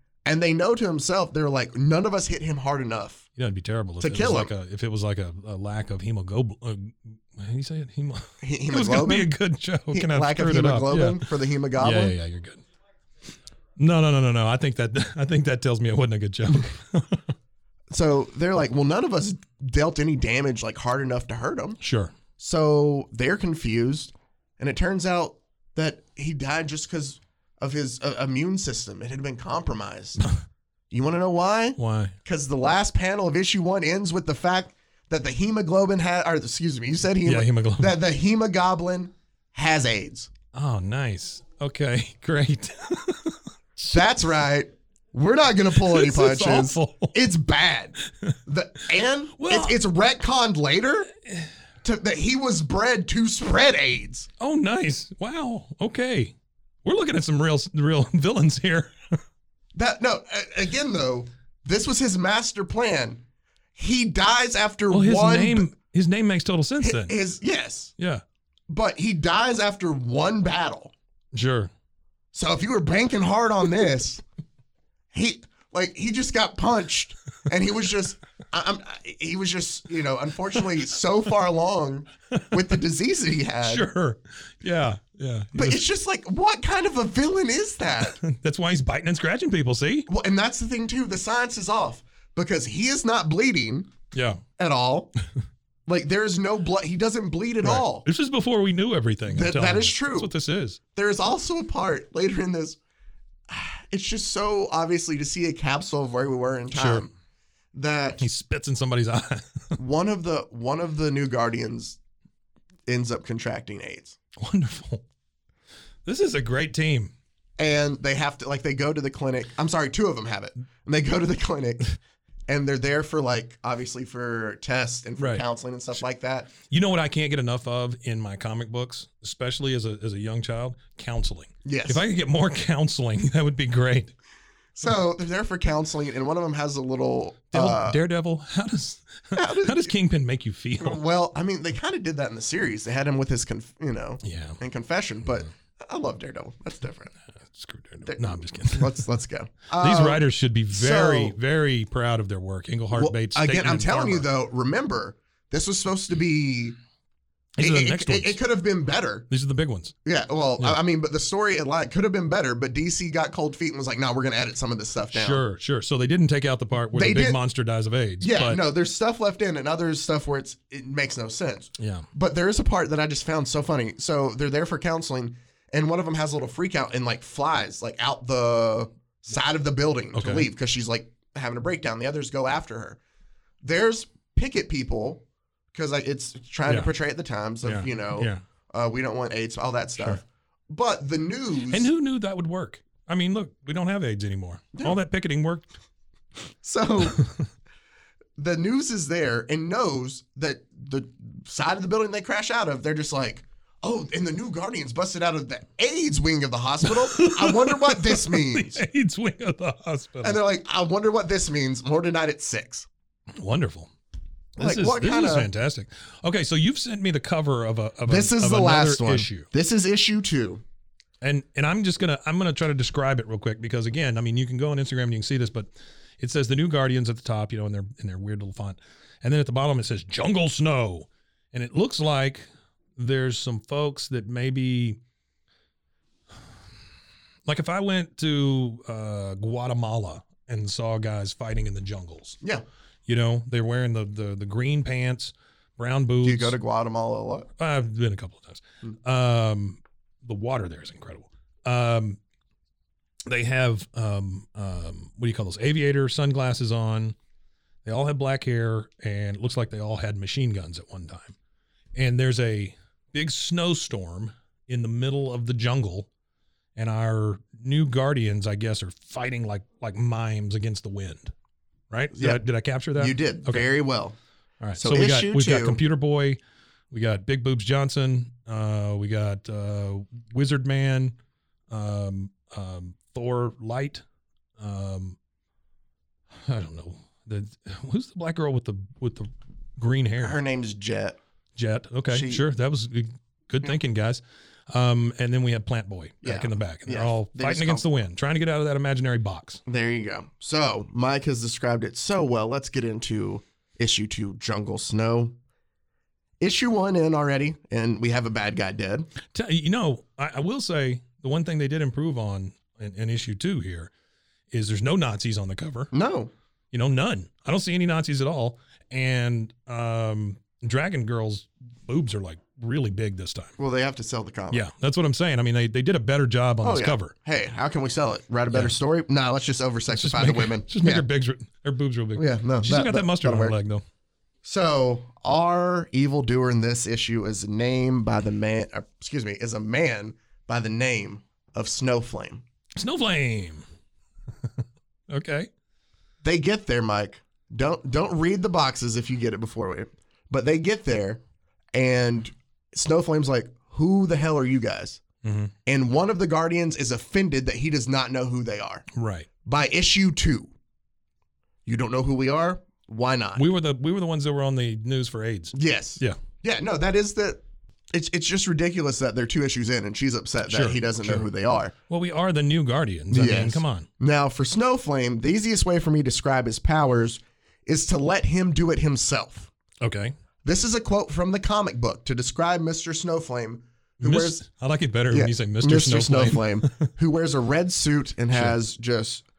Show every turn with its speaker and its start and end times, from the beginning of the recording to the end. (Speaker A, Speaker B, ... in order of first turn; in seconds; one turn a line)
Speaker A: 0.2-3.3
Speaker B: 3.4-12.6
Speaker A: 4.0-4.5
Speaker A: 8.4-9.3
Speaker A: 9.9-12.2
Speaker B: 13.8-17.2
Speaker A: 17.9-21.8
Speaker B: 21.8-22.1
Speaker A: 22.4-30.2
Speaker A: 30.9-40.3
Speaker B: 31.8-32.1
Speaker B: 37.2-38.0
Speaker B: 40.5-44.0
Speaker A: 43.9-51.1
Speaker B: 45.8-47.1
Speaker B: 49.4-49.8
Speaker A: 51.8-54.3
Speaker B: 54.4-58.9
Speaker A: 59.8-63.2
Speaker A: 63.8-65.7
Speaker B: 64.9-67.1
Speaker A: 66.8-67.9
Speaker B: 68.0-68.2
Speaker A: 68.7-70.9
Speaker B: 71.3-71.7
Speaker A: 72.3-74.2
Speaker A: 75.1-83.9
Speaker B: 83.6-85.8
Speaker A: 85.5-88.2
Speaker B: 88.0-90.1
Speaker A: 90.1-93.9
Speaker B: 94.1-94.4
Speaker A: 94.6-95.1
Speaker A: 95.9-98.1
Speaker B: 97.6-100.8
Speaker A: 99.3-100.3
Speaker A: 101.0-102.8
Speaker A: 103.5-107.1
Speaker B: 106.7-107.1
Speaker A: 107.7-108.2
Speaker B: 108.2-109.8
Speaker A: 109.8-112.0
Speaker A: 112.9-114.2
Speaker B: 114.4-115.0
Speaker B: 116.1-117.1
Speaker A: 117.6-121.9
Speaker A: 122.5-126.5
Speaker B: 125.2-125.4
Speaker B: 126.6-134.1
Speaker A: 131.6-132.0
Speaker A: 134.8-138.0
Speaker B: 137.5-141.0
Speaker A: 139.3-139.9
Speaker A: 140.8-147.1
Speaker B: 144.2-144.6
Speaker B: 147.4-149.1
Speaker A: 148.1-151.4
Speaker B: 149.8-154.3
Speaker A: 152.9-156.8
Speaker B: 157.6-158.4
Speaker A: 157.6-159.3
Speaker B: 159.3-159.9
Speaker A: 160.1-165.4
Speaker B: 165.1-168.6
Speaker A: 166.9-167.4
Speaker A: 168.2-183.0
Speaker B: 171.8-172.1
Speaker B: 180.1-180.5
Speaker A: 183.6-191.9
Speaker B: 187.6-188.4
Speaker B: 191.7-195.7
Speaker A: 196.6-197.2
Speaker A: 198.4-208.8
Speaker B: 206.8-210.4
Speaker A: 210.2-212.9
Speaker B: 213.4-213.9
Speaker B: 214.6-219.5
Speaker A: 214.6-215.5
Speaker A: 218.1-220.6
Speaker B: 221.2-232.4
Speaker B: 233.0-235.0
Speaker B: 237.4-242.4
Speaker B: 243.1-246.6
Speaker A: 246.2-247.5
Speaker B: 247.6-252.2
Speaker B: 253.3-257.1
Speaker B: 257.9-261.4
Speaker B: 261.9-266.1
Speaker B: 266.8-271.3
Speaker B: 271.9-273.7
Speaker A: 272.1-272.4
Speaker A: 272.9-274.2
Speaker B: 274.6-276.4
Speaker A: 274.8-275.8
Speaker B: 276.9-281.1
Speaker B: 281.7-284.0
Speaker B: 284.6-285.1
Speaker B: 286.4-290.4
Speaker A: 290.2-291.2
Speaker B: 291.6-299.6
Speaker A: 292.1-292.4
Speaker A: 296.2-297.9
Speaker A: 299.6-305.4
Speaker A: 306.4-309.1
Speaker B: 309.3-313.9
Speaker B: 314.5-315.9
Speaker A: 315.9-316.3
Speaker B: 316.7-323.5
Speaker A: 323.6-324.6
Speaker B: 324.5-327.1
Speaker A: 326.6-331.1
Speaker B: 328.5-328.8
Speaker B: 329.9-333.8
Speaker A: 332.1-333.6
Speaker A: 334.4-342.4
Speaker B: 342.8-343.6
Speaker B: 345.1-345.5
Speaker A: 346.2-351.2
Speaker A: 351.7-355.0
Speaker B: 355.2-355.5
Speaker A: 355.6-358.9
Speaker B: 358.9-359.3
Speaker A: 359.4-360.5
Speaker A: 361.6-363.4
Speaker B: 363.4-366.2
Speaker A: 365.5-367.4
Speaker A: 367.9-371.7
Speaker B: 370.4-371.2
Speaker B: 371.9-373.9
Speaker A: 373.1-379.5
Speaker B: 379.8-380.1
Speaker A: 380.4-384.4
Speaker B: 384.0-386.9
Speaker A: 385.1-389.2
Speaker B: 388.3-388.6